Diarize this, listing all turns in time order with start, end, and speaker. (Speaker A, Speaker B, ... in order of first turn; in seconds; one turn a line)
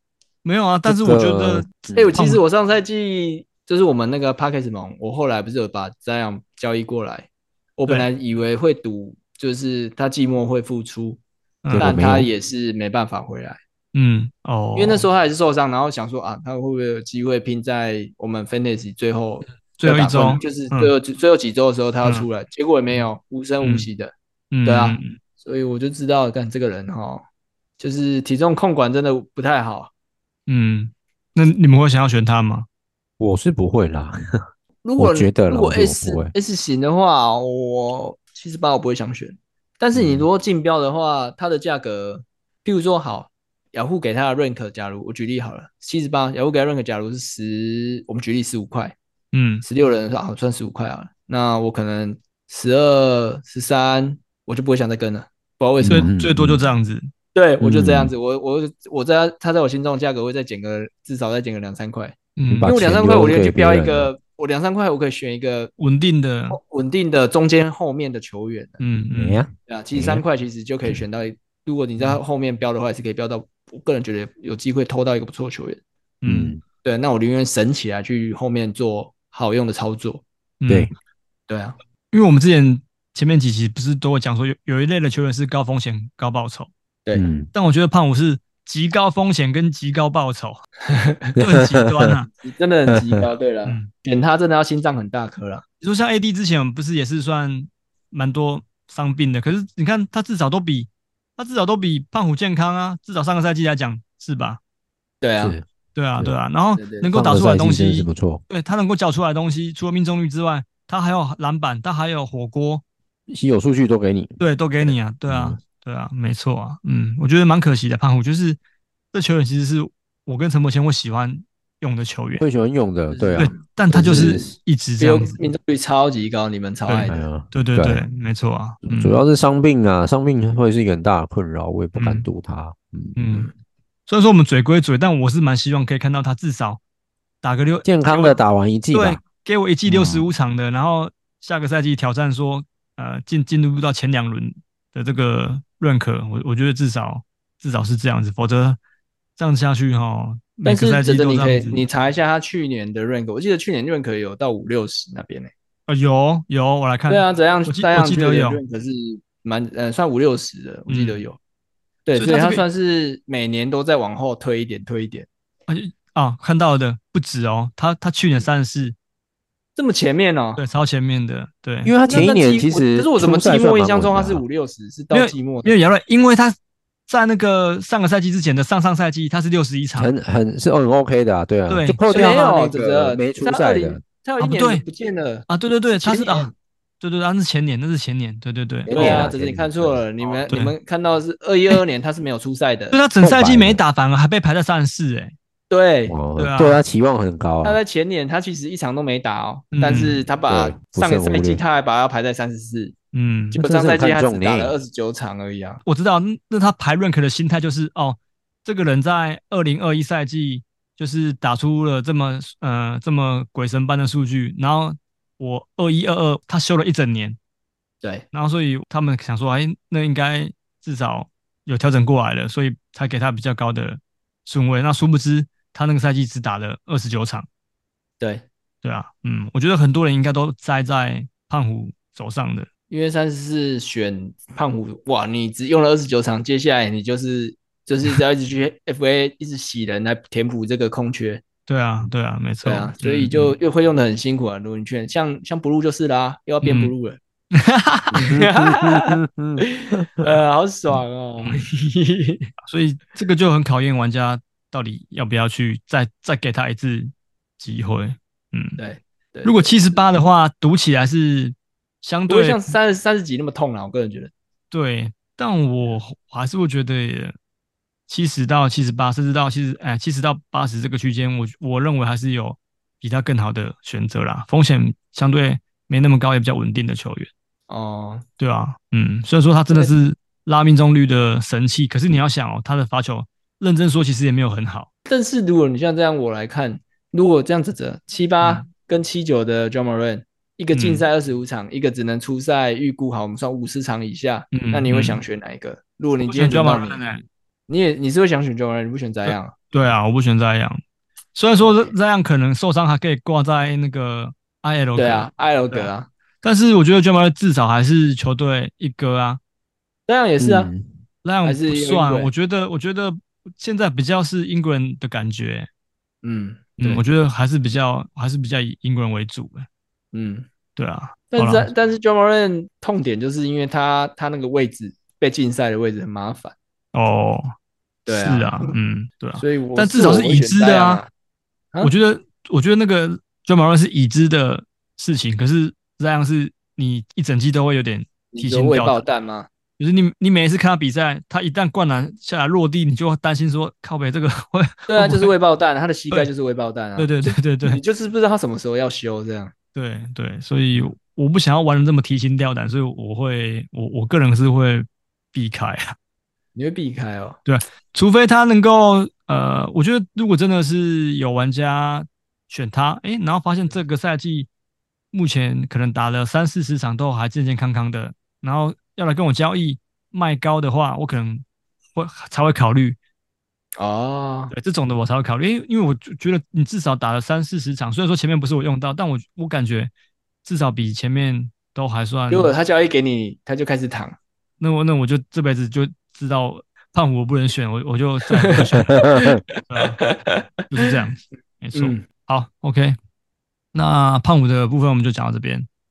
Speaker A: 0.4-2.4
Speaker B: 0.9-2.1
Speaker C: 1.9-11.2
Speaker A: 11.6-12.0
Speaker B: 11.7-12.3
Speaker C: 11.7-13.6
Speaker A: 13.9-15.1
Speaker C: 14.8-24.1
Speaker A: 19.8-20.9
Speaker A: 23.6-23.9
Speaker A: 24.5-25.2
Speaker C: 24.7-27.2
Speaker C: 27.8-29.9
Speaker A: 30.5-32.7
Speaker B: 33.2-34.1
Speaker C: 34.8-49.0
Speaker B: 35.0-36.3
Speaker B: 39.9-40.3
Speaker A: 49.3-49.6
Speaker C: 49.6-56.1
Speaker B: 55.8-56.7
Speaker A: 55.9-57.1
Speaker C: 57.4-65.7
Speaker B: 57.6-58.1
Speaker A: 62.4-62.7
Speaker B: 62.5-64.1
Speaker A: 65.8-66.6
Speaker C: 66.5-68.8
Speaker A: 68.8-69.4
Speaker B: 69.1-70.2
Speaker C: 69.7-75.8
Speaker A: 76.2-76.6
Speaker B: 76.3-76.6
Speaker C: 76.8-80.2
Speaker A: 80.6-80.9
Speaker C: 81.5-81.8
Speaker A: 82.1-86.7
Speaker B: 87.1-87.5
Speaker A: 87.5-90.6
Speaker C: 90.9-91.4
Speaker B: 91.4-92.1
Speaker A: 91.4-92.3
Speaker C: 92.4-95.6
Speaker B: 92.9-93.2
Speaker A: 93.6-93.9
Speaker A: 95.8-104.6
Speaker C: 105.2-105.6
Speaker B: 105.4-105.6
Speaker A: 106.0-112.8
Speaker C: 106.8-107.1
Speaker B: 107.1-108.4
Speaker B: 113.3-115.6
Speaker A: 114.4-118.6
Speaker A: 119.1-122.5
Speaker B: 122.4-124.5
Speaker C: 123.1-123.6
Speaker A: 123.4-125.4
Speaker C: 125.0-127.2
Speaker A: 126.9-129.2
Speaker B: 127.1-128.1
Speaker B: 128.8-133.4
Speaker A: 132.0-132.2
Speaker A: 133.2-133.5
Speaker A: 134.1-136.8
Speaker A: 137.4-138.4
Speaker B: 137.8-139.2
Speaker A: 138.9-148.8
Speaker B: 139.9-140.3
Speaker A: 149.4-151.8
Speaker C: 150.6-155.5
Speaker A: 155.9-158.6
Speaker C: 157.1-161.4
Speaker A: 160.9-161.2
Speaker C: 162.1-165.3
Speaker A: 162.1-162.6
Speaker A: 165.7-168.9
Speaker C: 169.8-170.6
Speaker A: 170.6-171.9
Speaker B: 171.8-174.4
Speaker C: 172.1-175.8
Speaker A: 175.1-176.6
Speaker A: 177.1-180.1
Speaker B: 180.0-184.0
Speaker A: 181.7-182.0
Speaker C: 182.1-186.5
Speaker A: 184.4-184.8
Speaker A: 185.5-189.3
Speaker B: 188.9-190.1
Speaker C: 188.9-193.0
Speaker A: 192.9-195.3
Speaker B: 193.2-193.8
Speaker C: 195.7-196.2
Speaker B: 196.1-197.8
Speaker A: 196.4-196.8
Speaker C: 197.6-202.9
Speaker A: 199.7-200.2
Speaker B: 200.5-201.6
Speaker A: 203.1-203.6
Speaker C: 203.5-205.8
Speaker B: 203.6-204.8
Speaker A: 205.9-217.4
Speaker A: 218.3-227.5
Speaker C: 228.2-228.4
Speaker A: 228.8-232.7
Speaker C: 232.9-241.4
Speaker A: 241.7-243.6
Speaker C: 242.6-247.2
Speaker A: 246.6-246.9
Speaker A: 247.5-248.2
Speaker B: 248.1-250.3
Speaker C: 248.1-252.5
Speaker A: 252.7-258.8
Speaker C: 258.8-259.8
Speaker A: 259.4-262.7
Speaker C: 262.3-264.3
Speaker A: 264.7-267.4
Speaker A: 268.1-277.3
Speaker C: 277.7-278.2
Speaker A: 278.4-284.9
Speaker C: 285.1-297.0
Speaker A: 290.7-291.0
Speaker A: 294.5-295.2
Speaker A: 296.2-297.2
Speaker C: 297.7-299.5
Speaker A: 299.3-300.8
Speaker A: 301.4-305.9
Speaker C: 301.6-301.9
Speaker C: 305.0-306.1
Speaker A: 306.4-309.4
Speaker C: 310.1-310.7
Speaker B: 310.4-310.9
Speaker A: 311.2-315.7
Speaker C: 311.4-312.3
Speaker C: 316.2-317.0
Speaker A: 316.8-319.7
Speaker C: 320.1-320.5
Speaker A: 320.8-321.7
Speaker C: 321.3-326.6
Speaker A: 326.9-327.5
Speaker C: 328.1-328.8
Speaker A: 328.1-331.0
Speaker C: 329.4-331.1
Speaker A: 331.8-339.0
Speaker C: 338.3-339.5
Speaker A: 339.8-345.3
Speaker C: 344.9-349.5
Speaker A: 347.0-347.8
Speaker A: 349.8-356.0
Speaker C: 356.6-357.4
Speaker A: 357.5-364.5
Speaker A: 365.1-371.4
Speaker A: 371.9-373.0
Speaker C: 373.8-374.5
Speaker A: 374.5-379.9
Speaker A: 380.4-382.5
Speaker C: 382.3-384.2
Speaker A: 384.6-390.1
Speaker C: 388.3-390.4
Speaker B: 389.1-389.4
Speaker A: 390.7-393.0
Speaker C: 391.7-392.0
Speaker A: 393.7-395.7